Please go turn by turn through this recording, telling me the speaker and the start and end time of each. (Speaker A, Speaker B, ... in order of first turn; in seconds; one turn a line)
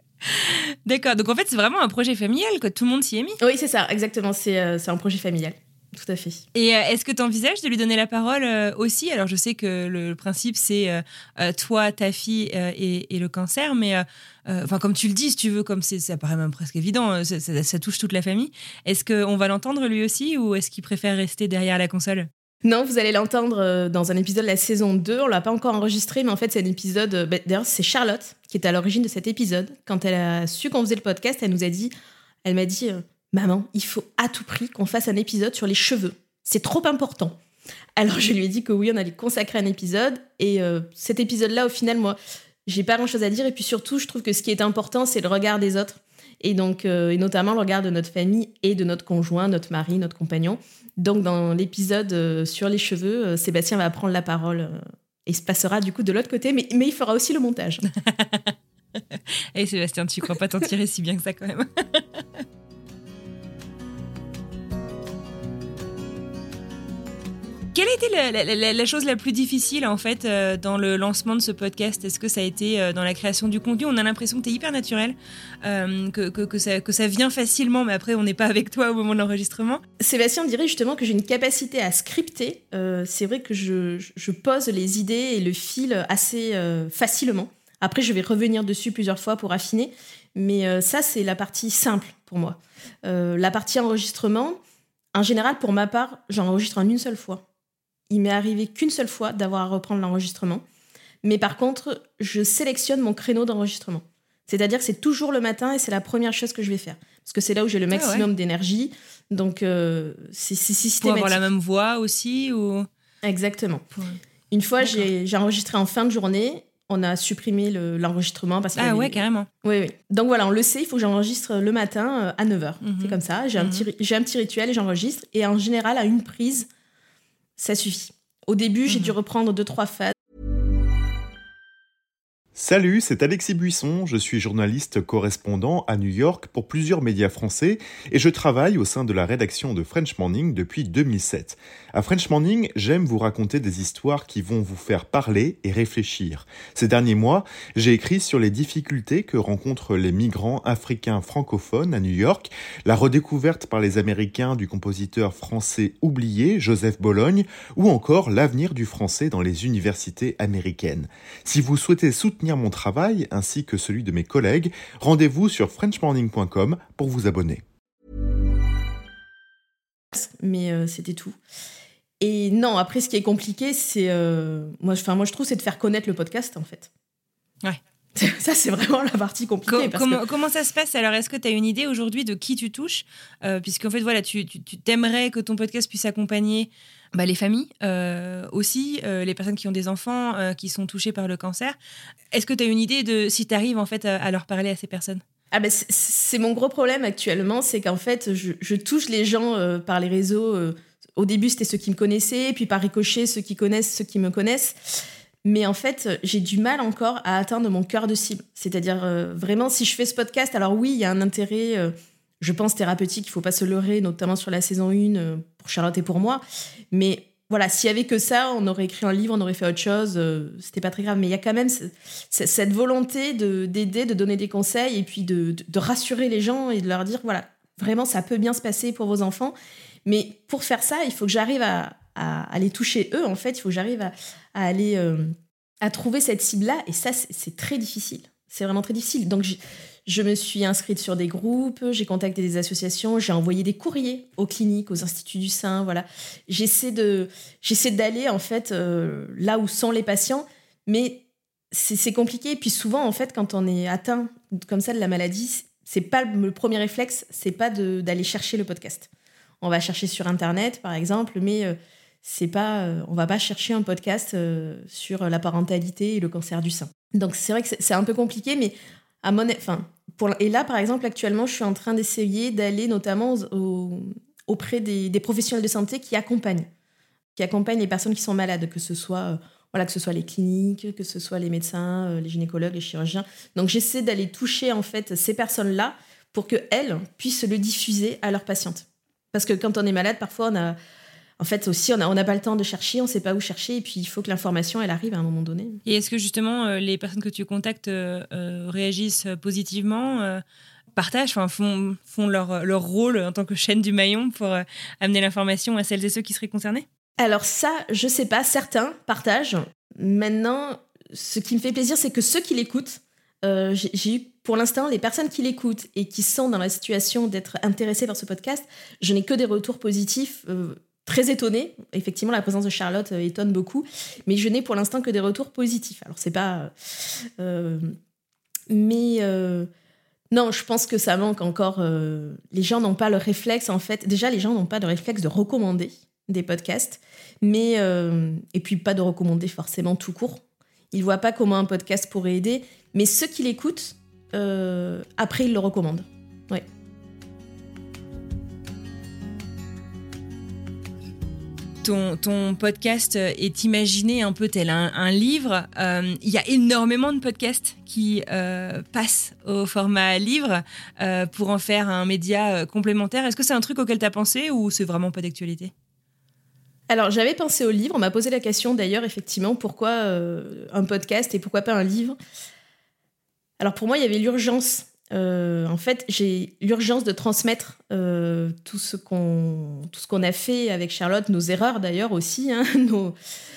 Speaker A: 0.2-3.4
Speaker B: 3.4-6.4
Speaker A: 6.5-22.3
Speaker B: 22.6-31.9
Speaker B: 32.4-37.4
Speaker B: 38.0-57.8
Speaker A: 58.0-62.4
Speaker A: 67.7-79.8
Speaker B: 80.0-94.6
Speaker B: 95.1-97.4
Speaker B: 98.1-100.6
Speaker B: 101.2-111.4
Speaker A: 107.9-108.3
Speaker A: 111.0-112.9
Speaker B: 113.2-113.8
Speaker B: 114.5-126.7
Speaker A: 114.8-115.1
Speaker A: 118.8-119.5
Speaker A: 122.8-123.9
Speaker B: 127.6-130.1
Speaker A: 128.9-129.1
Speaker C: 132.6-167.6
Speaker B: 170.1-171.4
Speaker B: 172.2-176.9
Speaker B: 178.1-180.2
Speaker A: 179.7-191.8
Speaker A: 192.3-195.2
Speaker B: 195.5-259.1
Speaker B: 259.6-276.7
Speaker B: 277.4-290.8
Speaker B: 291.4-295.8
Speaker A: 295.9-300.4
Speaker A: 300.9-306.9
Speaker B: 307.2-327.9
Speaker B: 328.7-329.7
Speaker B: 330.3-346.6
Speaker A: 351.8-365.7
Speaker B: 366.9-372.2
Speaker B: 373.6-383.1